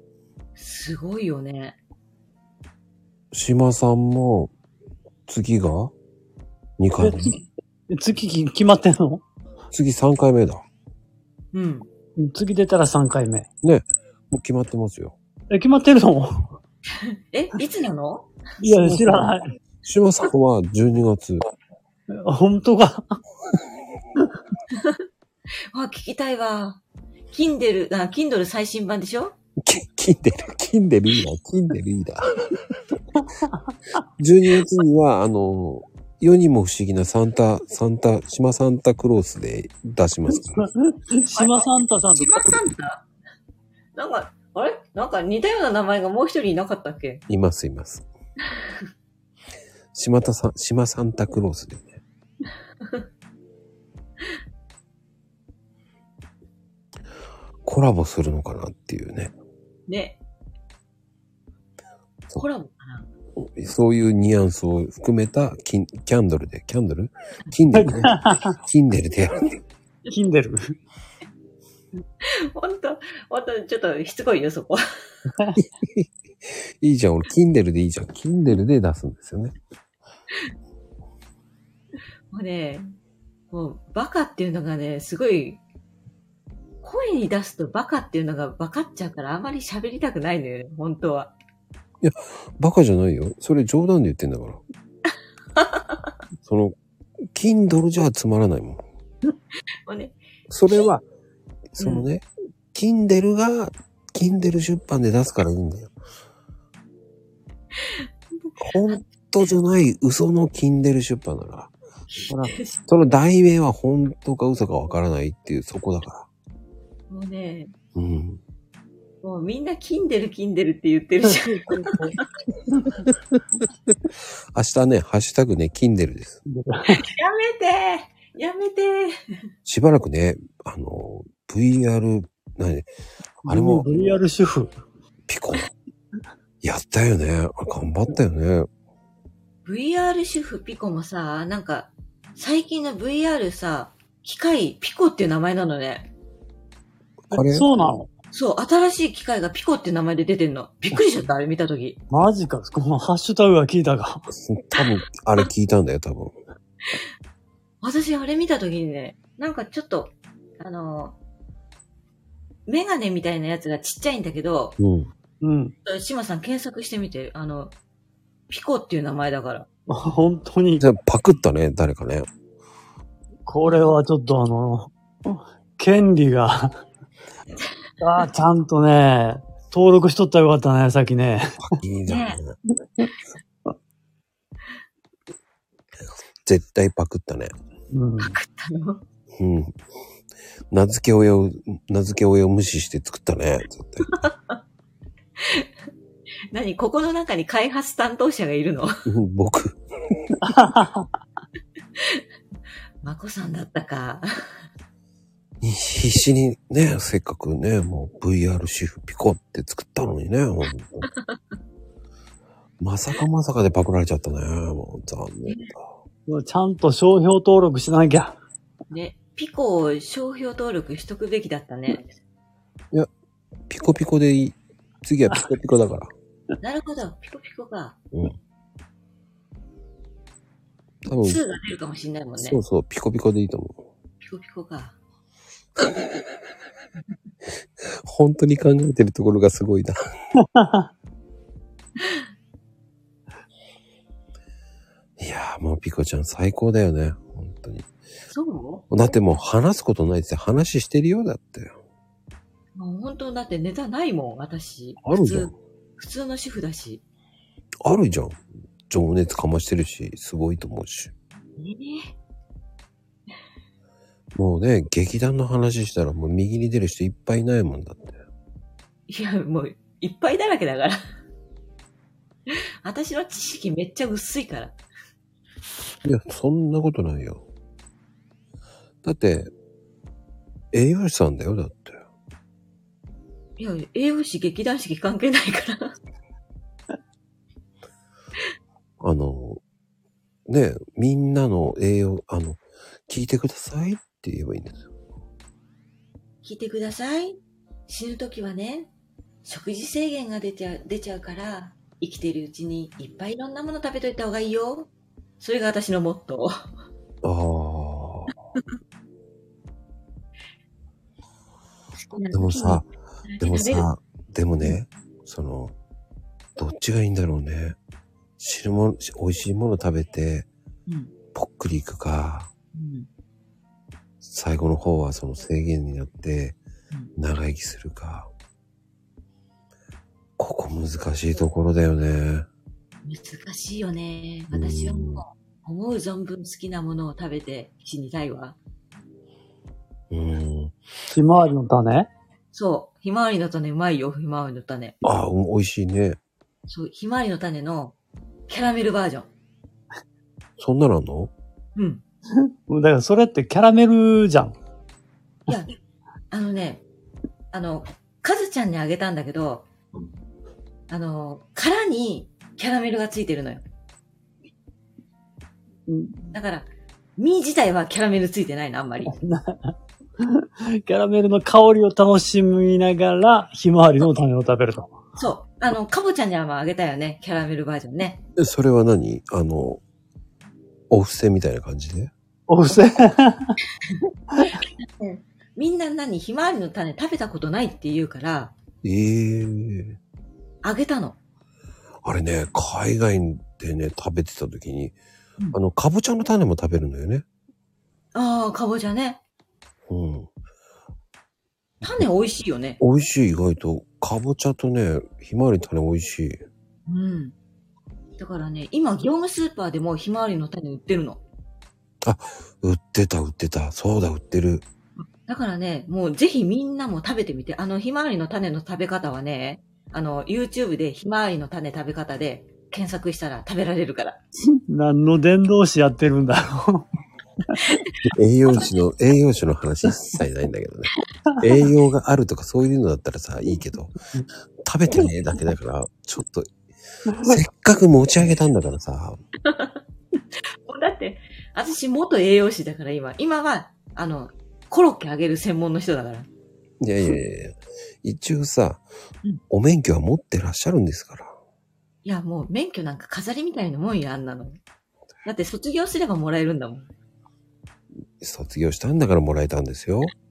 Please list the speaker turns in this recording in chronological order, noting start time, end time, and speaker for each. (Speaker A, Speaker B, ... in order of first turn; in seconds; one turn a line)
Speaker A: 0.6-1.8
Speaker B: 3.3-4.5
Speaker B: 5.3-5.9
Speaker B: 6.8-7.3
Speaker C: 7.0-9.2
Speaker B: 9.7-10.6
Speaker A: 11.5-11.9
Speaker C: 12.2-13.5
Speaker B: 13.6-15.2
Speaker C: 15.5-16.4
Speaker A: 17.0-19.2
Speaker C: 18.6-19.5
Speaker B: 18.9-19.2
Speaker B: 19.8-21.4
Speaker C: 22.1-23.2
Speaker A: 25.7-29.4
Speaker B: 29.6-32.2
Speaker B: 34.2-40.7
Speaker C: 40.4-42.6
Speaker A: 41.3-43.0
Speaker A: 43.9-47.2
Speaker B: 47.3-48.0
Speaker B: 49.9-52.0
Speaker B: 57.6-59.3
Speaker A: 59.9-60.2
Speaker A: 62.4-63.1
Speaker B: 63.4-69.5
Speaker C: 67.7-68.6
Speaker C: 70.1-70.7
Speaker A: 72.2-74.8
Speaker B: 75.6-79.5
Speaker A: 82.3-82.9
Speaker A: 83.5-85.6
Speaker A: 86.8-91.3
Speaker B: 92.0-94.6
Speaker A: 95.6-95.9
Speaker B: 96.4-96.7
Speaker B: 97.3-98.8
Speaker A: 99.8-100.2
Speaker B: 100.5-101.0
Speaker B: 101.7-105.9
Speaker A: 101.8-102.1
Speaker A: 107.8-109.0
Speaker B: 108.6-111.7
Speaker A: 112.1-112.8
Speaker B: 112.3-116.3
Speaker A: 117.1-117.7
Speaker B: 117.9-118.4
Speaker A: 119.2-122.2
Speaker C: 121.2-122.2
Speaker B: 124.5-126.4
Speaker C: 126.5-127.0
Speaker A: 127.0-129.1
Speaker B: 129.7-132.9
Speaker C: 133.4-134.7
Speaker B: 133.5-134.1
Speaker B: 135.3-135.7
Speaker B: 136.6-138.7
Speaker A: 139.6-146.1
Speaker B: 147.3-147.7
Speaker C: 147.3-148.1
Speaker A: 148.3-152.0
Speaker C: 152.1-154.3
Speaker B: 154.3-156.4
Speaker A: 157.8-161.2
Speaker A: 162.7-164.8
Speaker B: 164.8-165.1
Speaker C: 165.4-165.8
Speaker A: 165.8-167.7
Speaker A: 168.5-169.7
Speaker C: 169.9-170.8
Speaker B: 170.8-172.3
Speaker C: 173.4-176.7
Speaker A: 173.7-173.9
Speaker C: 178.0-181.6
Speaker B: 181.6-182.6
Speaker A: 182.1-182.4
Speaker B: 186.4-187.5
Speaker C: 187.9-188.3
Speaker A: 188.2-189.0
Speaker B: 189.4-189.7
Speaker B: 190.7-194.1
Speaker A: 194.1-194.6
Speaker A: 195.4-195.7
Speaker A: 196.5-198.9
Speaker B: 199.1-200.3
Speaker C: 200.4-201.1
Speaker A: 202.0-202.2
Speaker A: 203.0-204.3
Speaker B: 205.6-211.1
Speaker B: 212.8-215.9
Speaker A: 215.4-215.7
Speaker C: 216.3-218.4
Speaker A: 218.9-222.2
Speaker B: 223.7-226.1
Speaker A: 226.6-228.0
Speaker B: 231.1-231.4
Speaker A: 231.2-232.6
Speaker B: 232.4-233.8
Speaker A: 234.2-235.0
Speaker B: 237.8-239.9
Speaker C: 240.5-240.9
Speaker B: 245.2-247.9
Speaker A: 248.3-248.8
Speaker B: 248.9-251.7
Speaker A: 252.7-257.0
Speaker B: 255.0-255.5
Speaker B: 257.8-261.1
Speaker A: 261.6-262.1
Speaker B: 264.3-268.1
Speaker A: 269.1-271.0
Speaker A: 272.5-274.8
Speaker B: 276.0-277.4
Speaker B: 279.0-279.5
Speaker B: 280.7-282.0
Speaker A: 283.6-285.9
Speaker B: 289.0-289.6
Speaker B: 290.5-294.9
Speaker A: 296.4-298.9
Speaker A: 299.4-306.5
Speaker B: 307.2-308.3
Speaker A: 312.1-313.9
Speaker B: 312.3-312.9
Speaker B: 313.4-315.7
Speaker B: 316.6-317.8
Speaker B: 318.4-320.5
Speaker A: 320.9-321.1
Speaker B: 321.3-322.5
Speaker A: 322.7-323.1
Speaker B: 324.2-326.6
Speaker B: 327.1-328.3
Speaker B: 330.4-332.4
Speaker A: 333.0-338.6
Speaker B: 334.5-335.2
Speaker B: 340.1-340.8
Speaker C: 341.1-342.1
Speaker A: 342.5-344.9
Speaker B: 345.0-346.2
Speaker A: 346.7-347.9
Speaker A: 348.5-349.3
Speaker B: 350.6-351.3
Speaker A: 351.8-352.0
Speaker C: 352.7-354.5
Speaker A: 355.5-355.7
Speaker A: 356.3-356.8
Speaker A: 357.5-359.7
Speaker A: 360.9-363.6
Speaker C: 365.9-366.3
Speaker A: 366.3-369.1
Speaker C: 369.1-374.9
Speaker A: 375.2-378.2
Speaker B: 378.4-379.8
Speaker B: 380.9-382.1
Speaker C: 382.5-383.6
Speaker A: 384.4-388.5
Speaker B: 388.8-390.0
Speaker A: 390.6-391.2
Speaker B: 392.0-394.9
Speaker B: 395.5-397.2
Speaker A: 398.1-399.2
Speaker B: 399.9-400.3
Speaker A: 401.8-402.8
Speaker B: 402.8-406.4
Speaker A: 406.9-407.3
Speaker A: 408.2-411.2
Speaker B: 412.0-414.6
Speaker A: 415.2-424.2
Speaker C: 424.7-426.9
Speaker B: 428.1-433.9
Speaker B: 434.6-436.5
Speaker C: 437.1-437.4
Speaker B: 437.2-439.2
Speaker A: 439.4-439.8
Speaker A: 440.7-446.3
Speaker B: 446.8-448.8
Speaker B: 449.5-451.3
Speaker A: 452.0-454.6
Speaker A: 455.2-456.9
Speaker B: 458.2-460.1